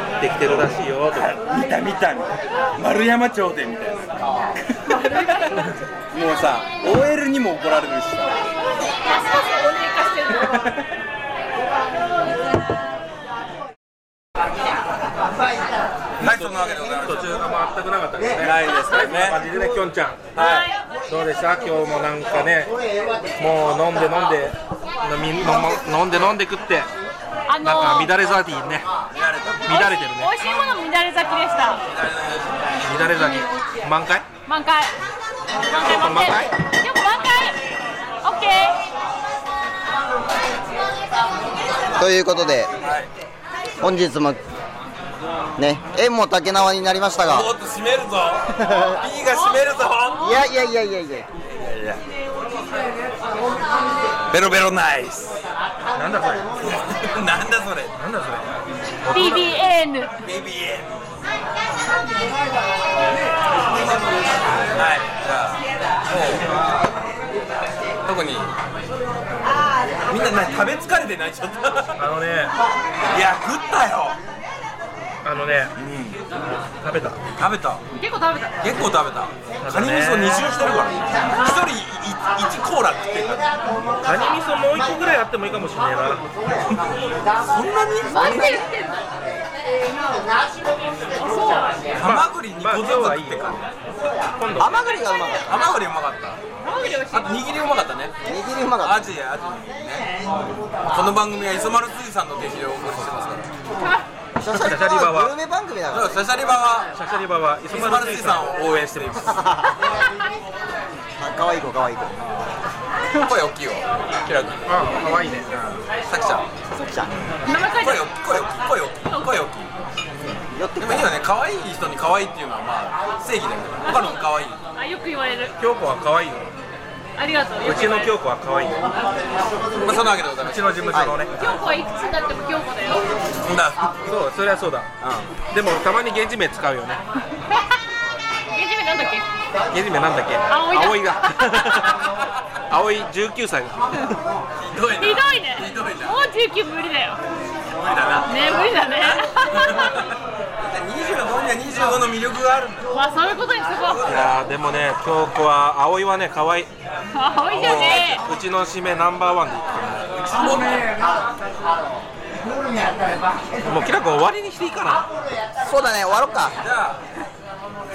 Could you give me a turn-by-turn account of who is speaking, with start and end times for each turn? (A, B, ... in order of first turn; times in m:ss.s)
0:00.2-0:01.4 A
0:00.4-0:04.1 B
0:04.7-0:05.6 B
0:04.9-0:05.8 C
0:06.1-0:08.4 B
0:08.8-0:10.7 C
0:10.3-0:10.8 B
0:16.2-0:20.3 A
0:16.2-0:17.5 B
0:18.4-0:19.4 B
0:20.3-0:20.7 B
0:20.4-0:20.8 C
0:21.1-0:22.7 A
0:23.4-0:26.9 A
0:25.5-0:25.7 B
0:27.5-0:28.1 C
0:27.6-0:28.9 A
0:29.1-0:29.7 B
0:29.6-0:30.3 A
0:29.6-0:31.8 C
0:31.9-0:32.5 B
0:32.8-0:34.2 A
0:34.4-0:35.0 C
0:35.6-0:37.6 C
0:35.7-0:36.5 A
0:38.2-0:38.8 C
0:41.9-0:42.7 D
0:42.8-0:43.1 B
0:43.8-0:44.4 D
0:45.6-0:47.5 D
0:47.2-0:50.4 B
0:48.5-0:49.0 D
0:49.3-0:50.4 C
0:50.2-0:51.3 D
0:51.5-0:52.0 B
0:54.3-0:55.4 B
0:55.9-0:56.5 A
0:56.6-0:57.9 B
0:58.0-0:59.5 A
0:59.1-1:00.2 C
1:00.2-1:01.0 B
1:04.7-1:06.6 B
1:08.0-1:08.5 B
1:10.1-1:12.0 B
1:12.0-1:12.5 A
1:13.0-1:14.2 B
1:15.2-1:15.7 A
1:15.8-1:16.2 B
1:16.8-1:17.2 A
1:17.4-1:17.8 B
1:17.9-1:18.6 C
1:18.6-1:23.6 B
1:19.6-1:20.6 A
1:24.0-1:26.2 A
1:27.4-1:28.6 B
1:28.0-1:28.6 D
1:28.0-1:29.0 C
1:31.1-1:31.9 C
1:32.0-1:33.6 B
1:32.0-1:33.6 A
1:34.4-1:34.8 A
1:34.6-1:35.6 D
1:35.3-1:38.1 B
1:36.6-1:37.4 C
1:38.2-1:39.0 D
1:38.8-1:40.2 B
1:40.8-1:43.5 B
1:43.8-1:44.0 C
1:44.4-1:46.4 D
1:44.4-1:45.4 A
1:45.9-1:46.9 B
1:46.9-1:49.3 A
1:47.7-1:49.4 B
1:49.3-1:49.8 D
1:51.2-1:52.3 D
1:53.1-1:54.6 B
1:54.6-1:55.8 A
1:56.1-1:56.5 B
1:56.7-1:57.1 D
1:57.4-1:58.1 C
1:57.5-1:59.7 B
1:59.0-1:59.4 C
2:00.5-2:01.2 D
2:00.8-2:04.6 B
2:03.8-2:05.5 C
2:05.6-2:06.5 A
2:07.2-2:08.1 C
2:07.6-2:08.8 A
2:09.8-2:11.5 B
2:10.3-2:11.6 A
2:10.9-2:11.2 D
2:11.4-2:13.1 C
2:13.4-2:14.0 B
2:14.0-2:14.9 A
2:15.0-2:15.3 B
2:15.5-2:17.0 A
2:18.5-2:19.2 C
2:19.7-2:22.1 A
2:20.5-2:21.9 C
2:22.7-2:24.1 A
2:24.6-2:26.2 B
2:25.0-2:27.2 C
2:27.8-2:32.8 B
2:28.2-2:30.1 C
2:32.9-2:34.1 C
2:33.9-2:34.3 B
2:34.1-2:36.7 A
2:37.1-2:38.2 C
2:37.5-2:39.9 A
2:37.5-2:38.2 B
2:39.9-2:41.1 B
2:43.6-2:45.0 A
2:45.6-2:46.6 D
2:46.6-2:47.0 B